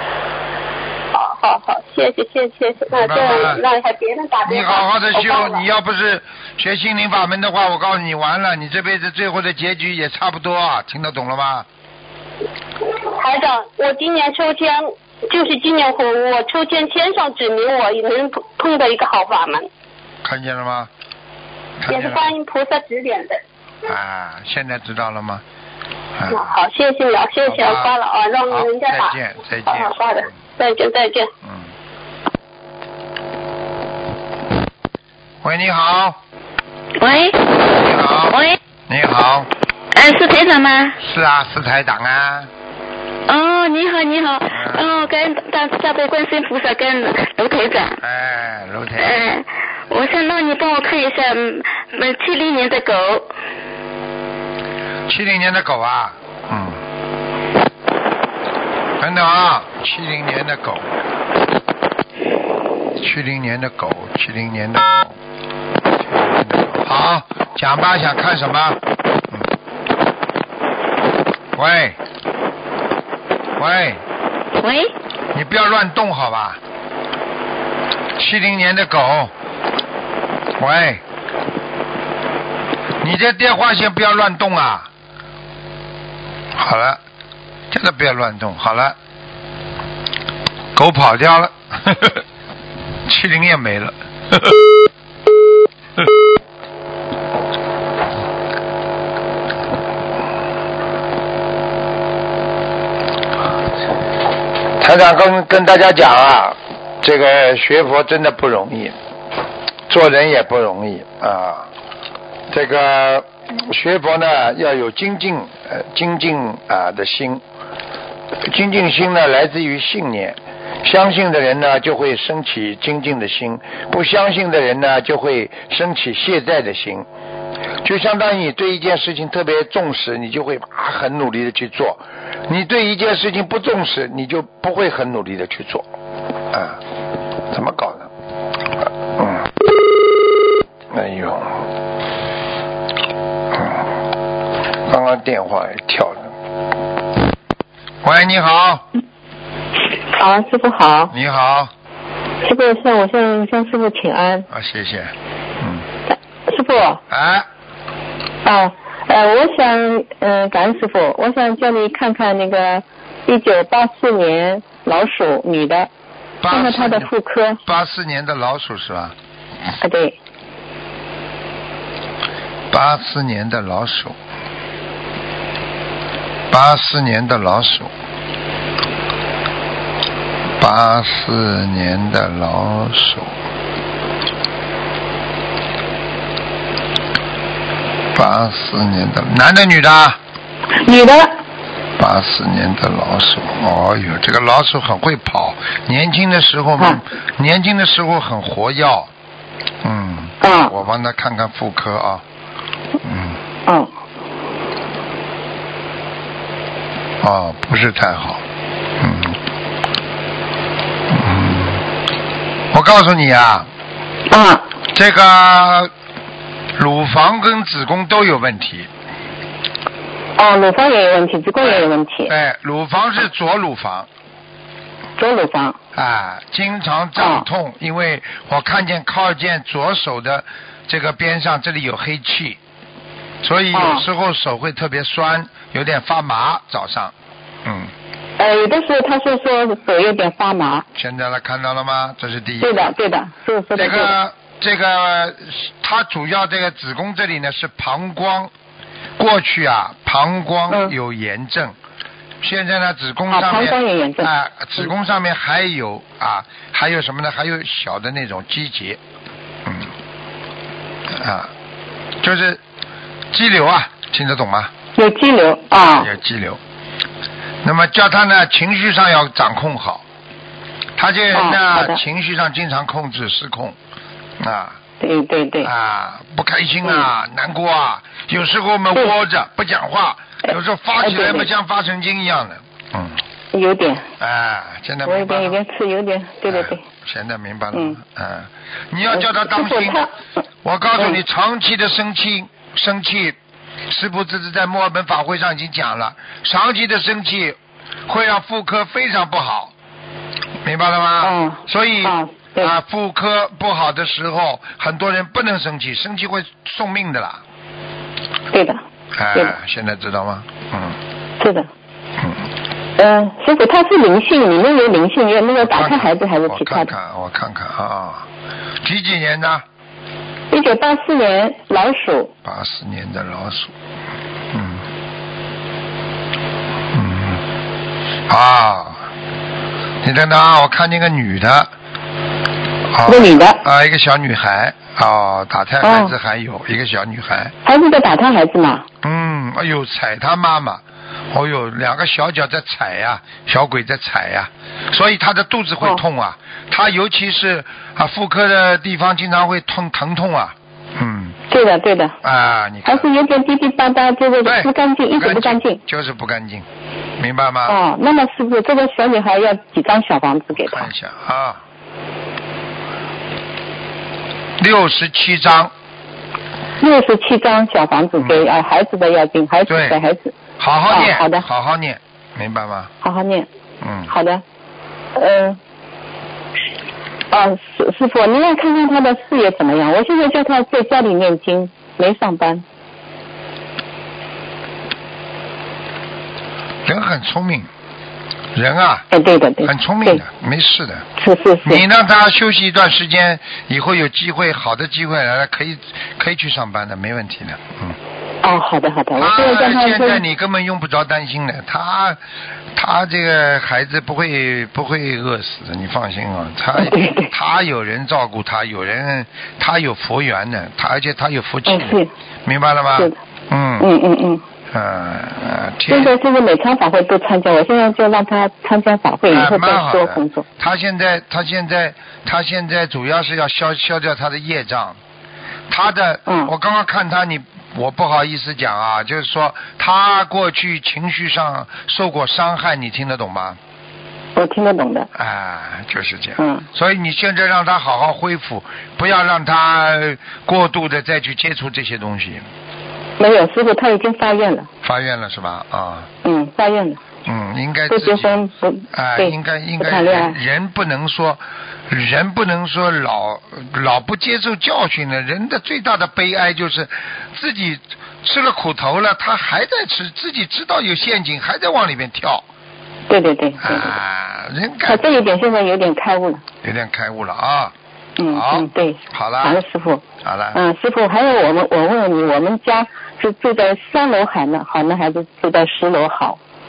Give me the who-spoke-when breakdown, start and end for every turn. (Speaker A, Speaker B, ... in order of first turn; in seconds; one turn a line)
Speaker A: 1.1-5.6
Speaker B: 2.9-3.6
Speaker B: 4.4-11.7
Speaker A: 13.0-19.7
Speaker B: 20.2-20.9
Speaker B: 21.8-22.3
Speaker A: 21.9-23.4
Speaker B: 23.8-25.4
Speaker B: 26.1-26.5
Speaker A: 26.3-29.1
Speaker B: 27.4-27.9
Speaker B: 28.5-29.9
Speaker A: 29.6-31.3
Speaker B: 31.4-31.7
Speaker B: 35.4-36.2
Speaker C: 37.0-37.8
Speaker B: 37.6-39.5
Speaker C: 38.3-38.6
Speaker C: 39.9-41.0
Speaker B: 41.0-42.5
Speaker C: 43.3-48.0
Speaker B: 44.5-45.2
Speaker B: 48.0-49.3
Speaker C: 49.0-53.3
Speaker B: 55.1-56.8
Speaker B: 59.0-60.9
Speaker B: 63.0-65.2
Speaker B: 66.0-69.5
Speaker B: 71.5-72.0
Speaker B: 73.6-74.0
Speaker C: 74.5-74.9
Speaker B: 75.3-76.6
Speaker B: 78.2-79.3
Speaker B: 80.6-81.0
Speaker B: 83.0-84.9
Speaker B: 86.5-87.0
Speaker B: 87.7-89.0
Speaker B: 90.7-92.2
Speaker B: 93.0-94.6
Speaker B: 104.8-108.9
Speaker B: 109.9-111.7
Speaker B: 112.5-117.4
Speaker B: 118.4-127.1
Speaker B: 127.8-135.9
Speaker B: 136.5-136.8
Speaker B: 137.5-138.1
Speaker B: 138.8-139.5
Speaker B: 140.9-141.7
Speaker B: 143.5-143.9
Speaker B: 144.8-146.3
Speaker B: 148.0-148.8
Speaker D: 150.1-151.1
Speaker B: 151.1-151.7
Speaker D: 152.4-154.5
Speaker B: 154.5-155.8
Speaker D: 156.1-157.0
Speaker B: 157.1-157.5
Speaker D: 158.4-165.9
Speaker B: 166.4-167.1
Speaker D: 166.5-167.6
Speaker B: 167.6-169.1
Speaker D: 169.8-170.2
Speaker B: 172.7-174.2
Speaker B: 176.5-177.9
Speaker B: 180.6-183.3
Speaker B: 188.1-190.2
Speaker D: 190.7-191.3
Speaker B: 192.0-199.1
Speaker B: 199.8-202.2
Speaker D: 200.4-200.7
Speaker B: 203.0-203.4
Speaker B: 207.2-208.4
Speaker B: 209.0-209.4
Speaker B: 211.1-211.8
Speaker B: 212.7-213.7
Speaker D: 214.3-214.7
Speaker B: 214.9-215.9
Speaker B: 216.8-218.9
Speaker D: 220.4-222.3
Speaker B: 221.6-224.1
Speaker D: 225.2-225.8
Speaker B: 225.9-232.6
Speaker D: 227.2-227.4
Speaker B: 233.4-237.1
Speaker D: 233.7-234.1
Speaker B: 237.6-237.9
Speaker D: 238.4-240.8
Speaker B: 240.9-242.9
Speaker D: 242.6-244.1
Speaker B: 243.8-248.5
Speaker B: 249.2-251.8
Speaker B: 252.4-259.0
Speaker D: 253.3-254.3
Speaker B: 259.6-259.9
Speaker B: 261.1-261.5
Speaker B: 262.2-262.6
Speaker B: 263.3-264.7
Speaker D: 264.9-266.1
Speaker B: 265.9-266.6
Speaker B: 267.6-270.0
Speaker B: 271.0-273.8
Speaker D: 271.3-272.0
Speaker B: 274.4-274.8
Speaker D: 275.0-275.7
Speaker B: 275.6-283.2
Speaker D: 281.0-281.5
Speaker D: 283.5-284.1
Speaker B: 284.2-285.6
Speaker D: 285.0-286.8
Speaker B: 286.5-290.0
Speaker D: 287.7-288.0
Speaker D: 289.1-290.1
Speaker B: 290.6-293.4
Speaker B: 293.9-299.7
Speaker B: 300.6-307.4
Speaker D: 301.2-302.7
Speaker D: 308.5-308.8
Speaker B: 309.1-311.0
Speaker D: 311.4-311.7
Speaker B: 312.2-312.4
Speaker D: 313.0-316.9
Speaker B: 315.6-318.3
Speaker B: 318.8-319.6
Speaker D: 320.5-322.3
Speaker B: 322.4-323.7
Speaker B: 324.5-324.9
Speaker B: 326.9-327.4
Speaker B: 328.3-329.1
Speaker B: 330.0-331.7
Speaker B: 332.9-337.5
Speaker D: 333.1-333.6
Speaker D: 335.8-336.1
Speaker D: 337.6-338.9
Speaker B: 339.0-351.4
Speaker D: 351.5-352.1
Speaker B: 352.2-353.1
Speaker D: 352.9-355.8
Speaker B: 354.4-356.6
Speaker B: 357.2-357.8
Speaker D: 357.7-360.9
Speaker B: 360.6-361.6
Speaker B: 364.6-365.7
Speaker D: 366.8-370.3
Speaker B: 368.2-368.4
Speaker B: 369.7-370.0
Speaker B: 370.6-372.9
Speaker D: 370.9-371.4
Speaker D: 373.0-373.5
Speaker B: 373.8-374.1
Speaker D: 374.1-374.4
Speaker D: 375.1-375.6
Speaker D: 377.3-382.6
Speaker B: 386.8-387.7
Speaker B: 388.5-389.1
Speaker D: 389.1-390.2
Speaker B: 389.6-391.1
Speaker D: 391.2-391.8
Speaker B: 391.6-398.0
Speaker D: 398.4-400.2
Speaker B: 399.1-402.2
Speaker B: 402.7-413.9
Speaker D: 406.8-407.3
Speaker D: 411.7-412.1
Speaker D: 413.8-414.4
Speaker B: 414.7-416.1
Speaker D: 415.9-420.4
Speaker B: 419.3-425.0
Speaker B: 425.7-433.6
Speaker D: 426.3-426.5
Speaker D: 434.3-435.1
Speaker B: 435.1-442.4
Speaker D: 436.4-436.6
Speaker D: 443.2-444.7
Speaker B: 444.8-446.1
Speaker D: 446.2-447.0
Speaker B: 447.2-462.4
Speaker D: 447.9-450.4
Speaker D: 463.1-463.9
Speaker B: 463.6-465.1
Speaker D: 464.9-466.4
Speaker B: 466.6-467.7
Speaker D: 468.2-470.0
Speaker B: 468.3-469.6
Speaker B: 470.2-470.6
Speaker D: 470.5-476.4